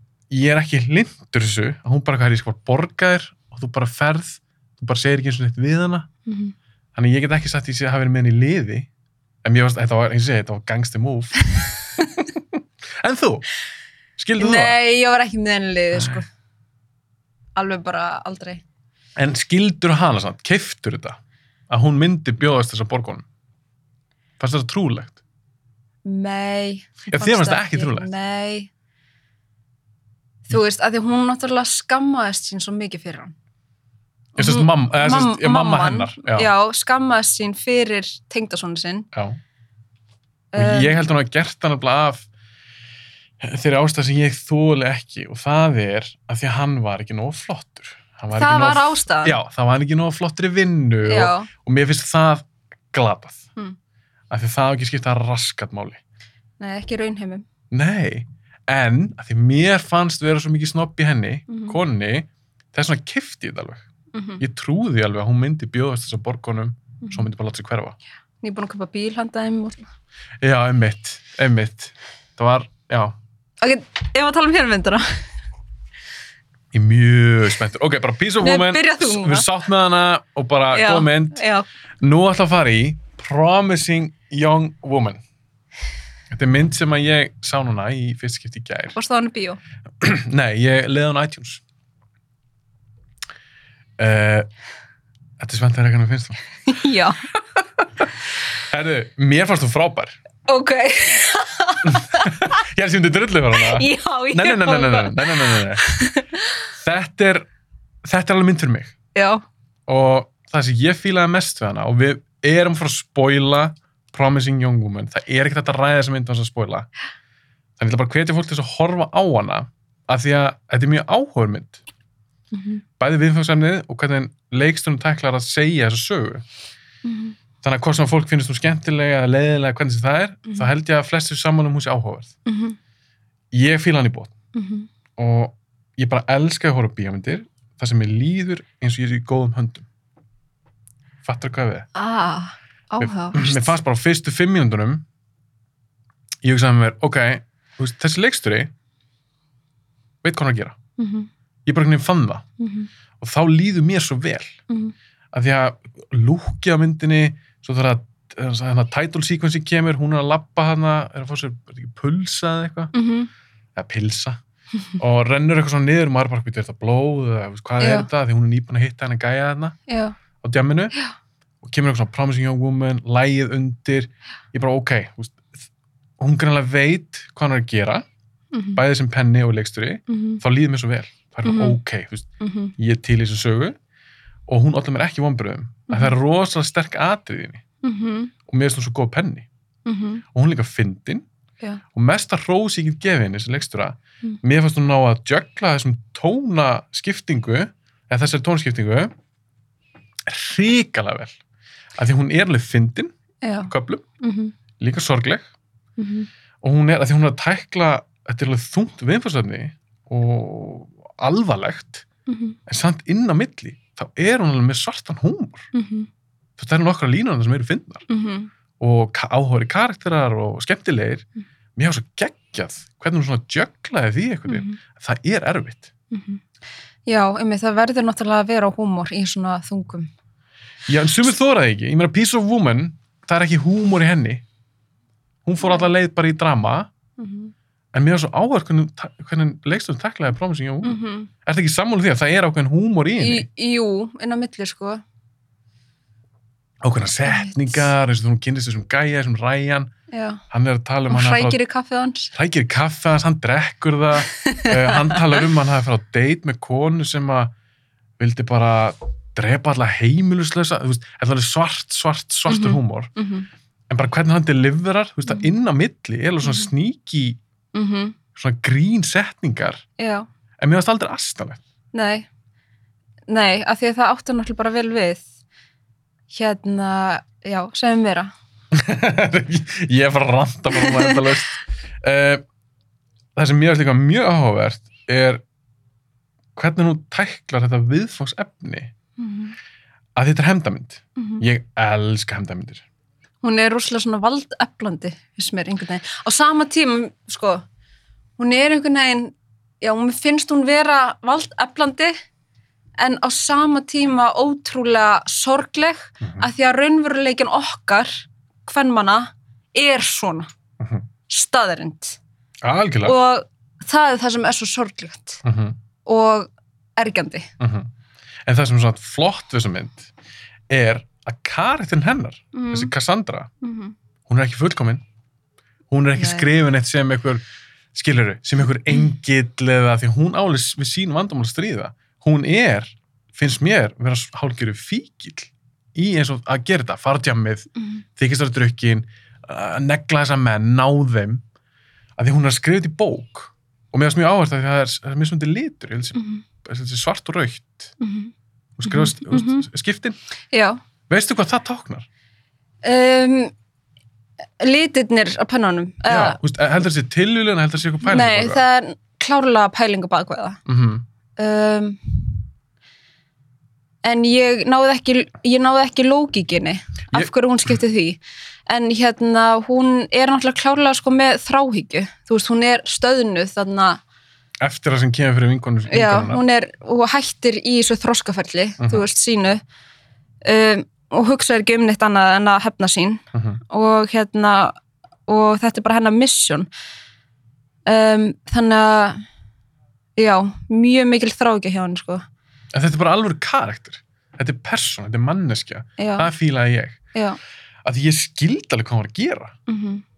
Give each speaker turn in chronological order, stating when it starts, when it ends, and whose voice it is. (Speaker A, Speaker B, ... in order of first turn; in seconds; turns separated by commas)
Speaker A: 0.3-6.1, Speaker B: 6.2-6.5, Speaker A: 6.9-8.9, Speaker A: 9.4-13.5, Speaker A: 14.2-14.8, Speaker B: 14.4-16.3, Speaker A: 15.9-16.2, Speaker B: 17.6-18.6, Speaker A: 19.2-21.2, Speaker A: 21.7-23.2, Speaker A: 24.4-25.2, Speaker B: 26.0-28.7, Speaker A: 27.1-28.1, Speaker B: 30.5-33.3, Speaker A: 34.4-36.5, Speaker B: 34.4-39.1, Speaker A: 39.1-39.4, Speaker B: 40.5-41.0, Speaker A: 40.5-42.3, Speaker A: 43.4-53.5, Speaker B: 48.3-49.4, Speaker B: 51.0-51.5, Speaker A: 54.3-56.0, Speaker B: 56.6-57.5, Speaker A: 57.7-63.9, Speaker B: 61.5-61.8, Speaker B: 64.1-64.4, Speaker A: 64.4-68.0, Speaker B: 68.4-69.8, Speaker A: 70.4-73.2, Speaker B: 73.6-75.0, Speaker A: 76.7-81.4, Speaker B: 78.4-79.5, Speaker B: 80.7-81.7, Speaker A: 82.0-85.2, Speaker A: 86.3-89.0, Speaker B: 88.9-89.6, Speaker A: 90.0-91.6, Speaker A: 94.0-94.5, Speaker A: 95.4-96.4, Speaker B: 96.7-97.2, Speaker A: 98.0-100.2, Speaker B: 100.5-102.5, Speaker A: 101.8-105.8, Speaker B: 103.5-106.5, Speaker A: 106.7-107.5, Speaker A: 108.0-108.9, Speaker B: 109.1-109.4, Speaker A: 109.9-116.9, Speaker A: 117.8-121.8, Speaker B: 122.5-122.8, Speaker A: 123.0-126.4, Speaker B: 127.0-127.3, Speaker A: 127.6-132.3, Speaker B: 132.4-132.8, Speaker A: 133.5-134.3, Speaker B: 134.5-134.9, Speaker A: 135.2-139.9, Speaker A: 141.2-141.9, Speaker B: 141.9-143.7, Speaker A: 143.0-145.0, Speaker A: 146.4-148.7, Speaker A: 150.2-150.8, Speaker B: 151.0-151.3, Speaker A: 151.7-152.5, Speaker B: 152.6-152.9, Speaker A: 153.2-154.6, Speaker A: 155.3-162.9, Speaker B: 162.9-163.3, Speaker A: 163.8-164.4, Speaker A: 165.0-169.8, Speaker B: 167.8-168.1, Speaker B: 169.9-170.2, Speaker A: 170.4-170.9, Speaker A: 171.6-175.6, Speaker A: 176.2-178.0, Speaker B: 178.5-178.8, Speaker A: 178.7-183.8, Speaker B: 180.1-180.4, Speaker B: 181.4-181.8, Speaker B: 182.4-182.7, Speaker A: 184.5-187.6, Speaker B: 185.9-186.1, Speaker B: 187.8-188.3, Speaker A: 188.5-189.5, Speaker B: 189.8-190.2, Speaker A: 190.3-191.2, Speaker A: 191.9-199.1, Speaker A: 200.3-201.3, Speaker A: 202.0-203.1, Speaker B: 203.4-204.5, Speaker A: 203.7-204.1, Speaker A: 204.8-205.5, Speaker B: 206.0-206.3, Speaker A: 206.6-212.1, Speaker B: 212.3-212.6, Speaker A: 212.7-215.7, Speaker B: 215.7-216.1, Speaker A: 216.6-218.1, Speaker B: 218.1-218.5, Speaker A: 218.8-225.9, Speaker B: 224.5-224.8, Speaker B: 226.1-226.4, Speaker B: 227.1-230.1, Speaker A: 230.9-234.4, Speaker A: 235.4-236.9, Speaker B: 235.6-235.9, Speaker B: 237.2-237.5, Speaker A: 237.9-243.5, Speaker B: 240.8-241.3, Speaker B: 243.2-245.0, Speaker A: 246.8-249.9, Speaker B: 247.2-247.9, Speaker B: 250.1-250.4, Speaker A: 250.5-251.6, Speaker B: 251.1-252.3, Speaker A: 252.3-257.5, Speaker B: 254.3-255.2, Speaker A: 258.2-263.1, Speaker B: 262.5-263.5, Speaker A: 263.9-267.4, Speaker B: 266.4-266.7, Speaker B: 267.7-268.2, Speaker A: 268.3-269.8, Speaker B: 270.0-270.3, Speaker A: 270.6-271.6, Speaker B: 271.9-272.3, Speaker B: 273.3-275.2, Speaker B: 276.3-278.3, Speaker A: 278.7-282.4, Speaker B: 280.7-281.3, Speaker A: 283.4-285.4, Speaker A: 286.5-288.9, Speaker B: 289.2-289.6, Speaker A: 290.1-292.8, Speaker B: 291.2-291.4, Speaker B: 293.4-297.6, Speaker B: 298.4-302.1, Speaker B: 303.0-310.5, Speaker A: 306.2-306.5, Speaker A: 310.8-311.1, Speaker B: 311.3-312.2, Speaker A: 312.6-313.1, Speaker B: 313.0-315.4, Speaker A: 315.4-315.8, Speaker B: 316.1-317.5, Speaker A: 317.6-317.9, Speaker A: 318.5-320.1, Speaker A: 320.7-323.5, Speaker B: 322.5-322.9, Speaker B: 323.6-323.9, Speaker A: 324.2-325.0, Speaker A: 325.9-327.4, Speaker B: 326.1-326.5, Speaker A: 327.9-341.4, Speaker A: 342.2-347.9, Speaker B: 346.1-346.4, Speaker B: 348.0-348.3, Speaker A: 348.8-350.2, Speaker B: 348.9-349.6, Speaker B: 350.5-350.8, Speaker A: 351.1-352.1, Speaker B: 352.8-353.5, Speaker B: 354.6-356.4, Speaker A: 356.1-358.6, Speaker B: 358.0-360.6, Speaker A: 360.6-361.0, Speaker B: 361.4-362.4, Speaker B: 364.0-374.0, Speaker A: 374.6-376.4, Speaker B: 375.9-379.6, Speaker A: 378.8-379.1, Speaker B: 380.4-384.7, Speaker A: 383.3-383.6, Speaker B: 385.3-386.7, Speaker B: 387.9-389.2, Speaker B: 390.2-392.2, Speaker A: 392.7-397.0, Speaker B: 396.0-396.3, Speaker B: 397.1-397.4, Speaker A: 397.8-399.6, Speaker B: 399.7-400.0